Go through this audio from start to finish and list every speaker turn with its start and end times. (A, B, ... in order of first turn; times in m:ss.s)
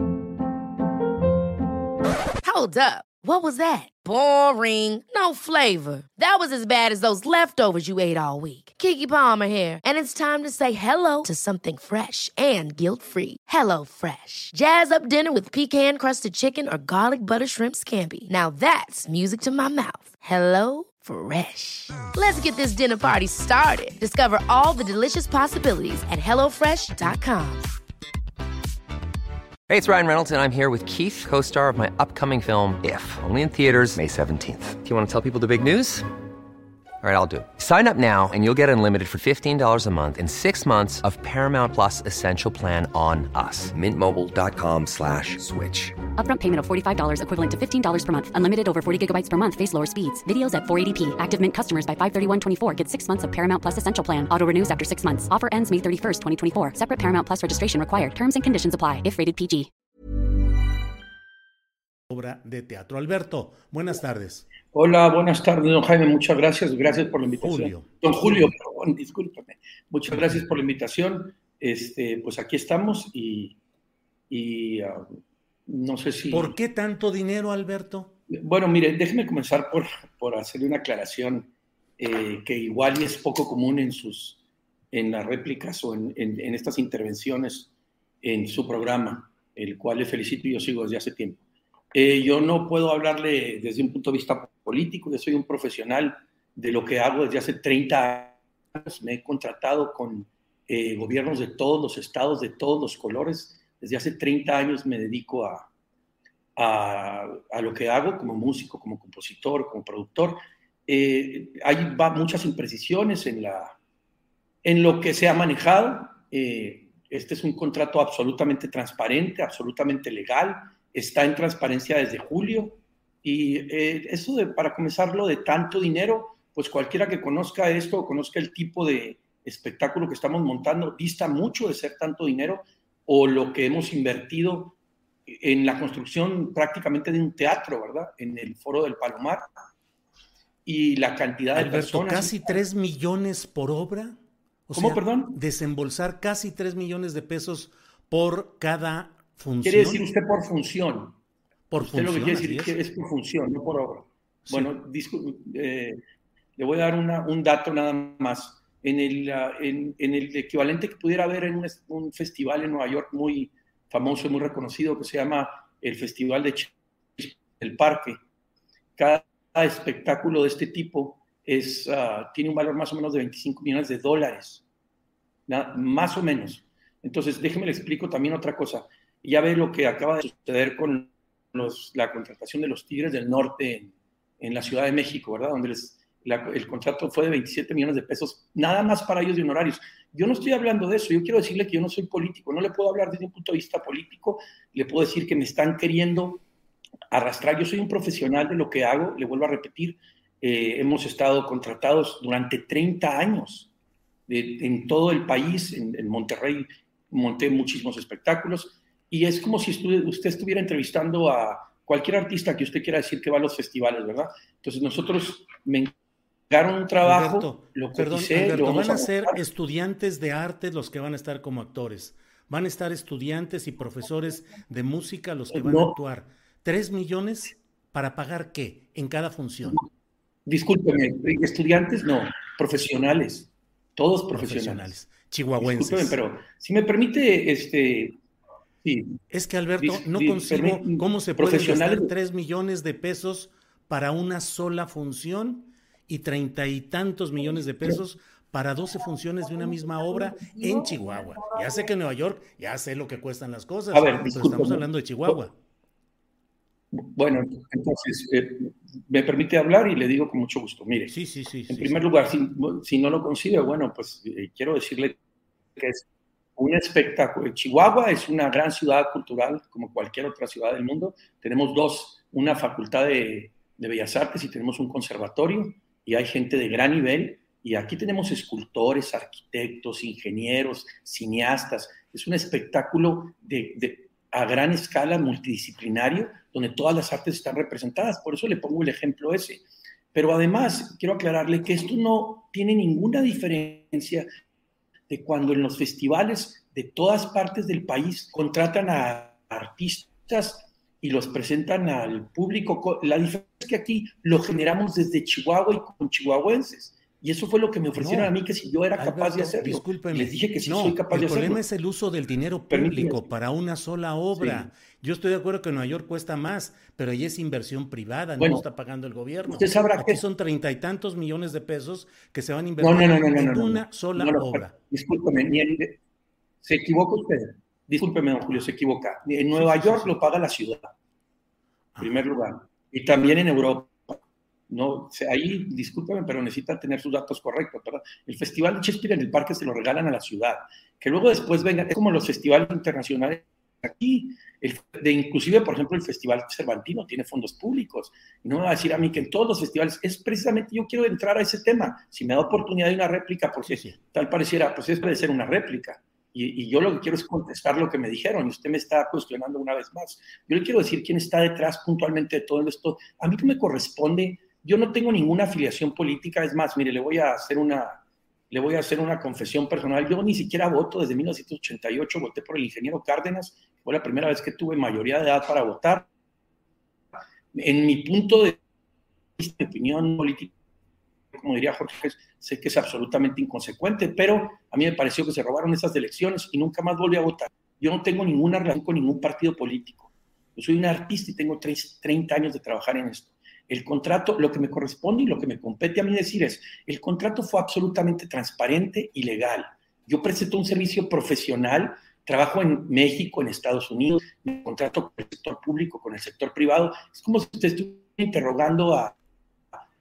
0:02.4-0:27.7 A
0:29.7-0:36.1 B
0:37.0-0:46.0 B
0:46.1-0:59.7 C
1:02.1-1:04.5 D
1:04.7-1:13.6 E
1:07.4-1:07.9 D
1:10.1-1:10.4 D
1:14.3-1:15.0 E
1:15.7-1:16.6 E
1:16.3-1:18.2 D
1:18.3-1:24.4 E
1:24.9-1:27.7 E
1:28.2-1:31.4 E
1:31.9-1:45.7 E
1:46.6-1:53.8 E
1:54.6-2:14.8 E
2:15.3-2:19.4 E
2:20.7-2:22.6 E
2:21.6-2:30.0 D
2:24.7-2:25.4 E
2:29.6-2:31.2 E
2:31.7-2:32.8 D
2:31.8-2:36.0 E
2:34.5-2:34.7 D
2:36.6-2:48.2 E
2:49.0-2:54.6 E
2:55.5-3:16.4 E
3:17.1-3:23.7 E
3:24.3-3:35.9 E
3:36.5-3:39.4 E
3:37.0-3:49.8 D
3:45.5-3:46.0 E
3:50.5-3:54.9 E
3:54.3-3:56.2 D
3:55.6-3:58.2 E
3:58.8-3:59.2 E
3:59.3-4:15.5 D
3:59.8-4:02.1 E
4:13.9-4:15.4 E
4:16.9-4:21.1 E
4:21.1-4:22.0 D
4:21.7-4:25.2 E
4:25.8-4:26.0 E
4:26.6-4:49.6 E
4:50.1-4:54.3 E
4:55.1-5:11.6 E
5:08.0-5:08.3 D
5:09.0-5:24.8 D
5:12.7-5:13.3 E
5:14.4-5:14.7 E
5:18.4-5:18.6 E
5:19.5-5:20.2 E
5:22.8-5:26.0 E
5:26.6-5:30.9 E
5:29.5-5:30.2 D
5:32.0-5:32.2 D
5:32.0-6:08.0 E
5:53.6-5:54.0 D
6:08.5-6:16.1 E
6:17.5-6:18.6 E
6:19.4-6:20.5 E
6:21.3-6:49.1 E